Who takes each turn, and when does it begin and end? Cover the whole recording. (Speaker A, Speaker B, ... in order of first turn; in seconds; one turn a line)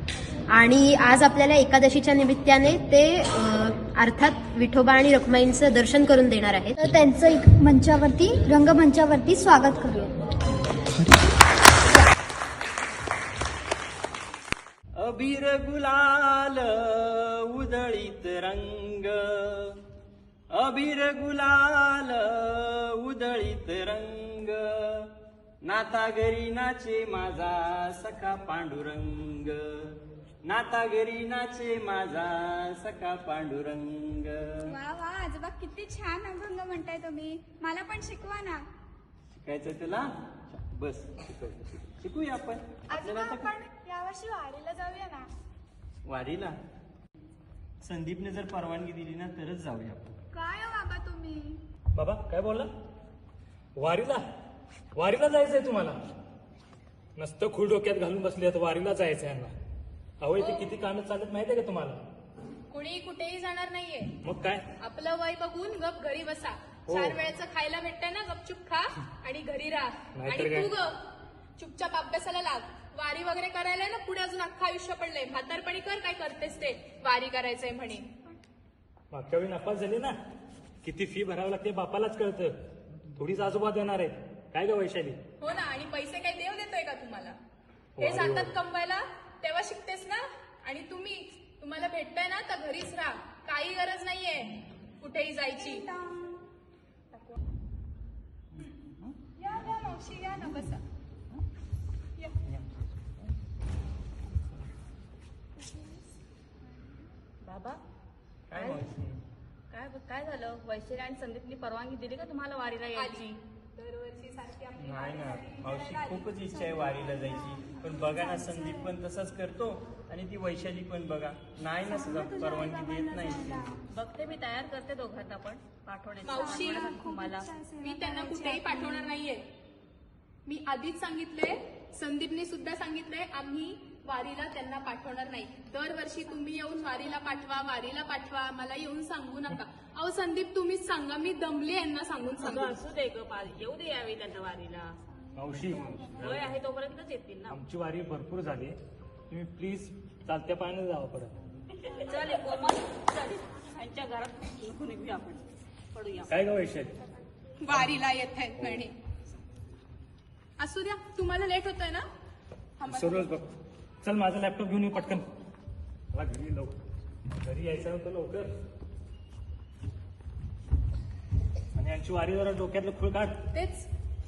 Speaker A: 0.5-7.0
Speaker B: 6.8-10.1
Speaker C: 15.0-19.8
Speaker C: 20.5-25.1
Speaker C: 25.6-34.8
Speaker D: 34.7-38.6
Speaker C: 39.3-43.5
Speaker D: 42.9-45.3
Speaker C: 46.0-46.5
Speaker C: 47.8-50.1
Speaker D: 50.3-51.6
Speaker E: 51.9-52.7
Speaker E: 53.8-54.2
Speaker E: 55.0-56.0
Speaker E: 57.2-59.5
Speaker E: 60.2-62.0
Speaker F: 60.4-60.7
Speaker F: 62.7-64.1
Speaker E: 64.2-64.6
Speaker F: 64.8-78.1
Speaker E: 70.2-70.7
Speaker E: 79.1-80.1
Speaker E: 80.8-82.5
Speaker E: 83.2-85.2
Speaker F: 85.4-87.4
Speaker F: 88.0-95.9
Speaker E: 88.0-88.5
Speaker D: 95.6-96.4
Speaker F: 99.4-100.8
Speaker G: 107.4-107.8
Speaker C: 108.5-109.2
Speaker G: 109.7-113.4
Speaker F: 112.9-116.3
Speaker C: 114.8-123.8
Speaker D: 117.8-118.9
Speaker D: 121.9-123.7
Speaker G: 123.9-127.5
Speaker F: 126.2-127.0
Speaker D: 126.3-129.1
Speaker F: 127.8-129.4
Speaker F: 130.4-142.8
Speaker G: 142.4-145.0
Speaker E: 145.4-146.6
Speaker G: 146.2-147.6
Speaker E: 147.5-148.8
Speaker E: 149.3-151.3
Speaker G: 151.9-155.4
Speaker G: 155.9-156.3
Speaker E: 156.3-156.9
Speaker F: 157.6-158.9
Speaker F: 160.6-162.0
Speaker F: 162.8-163.3
Speaker E: 162.9-163.5
Speaker E: 164.0-165.2
Speaker E: 166.1-166.7
Speaker E: 167.4-168.5
Speaker E: 171.7-173.4
Speaker F: 173.5-173.9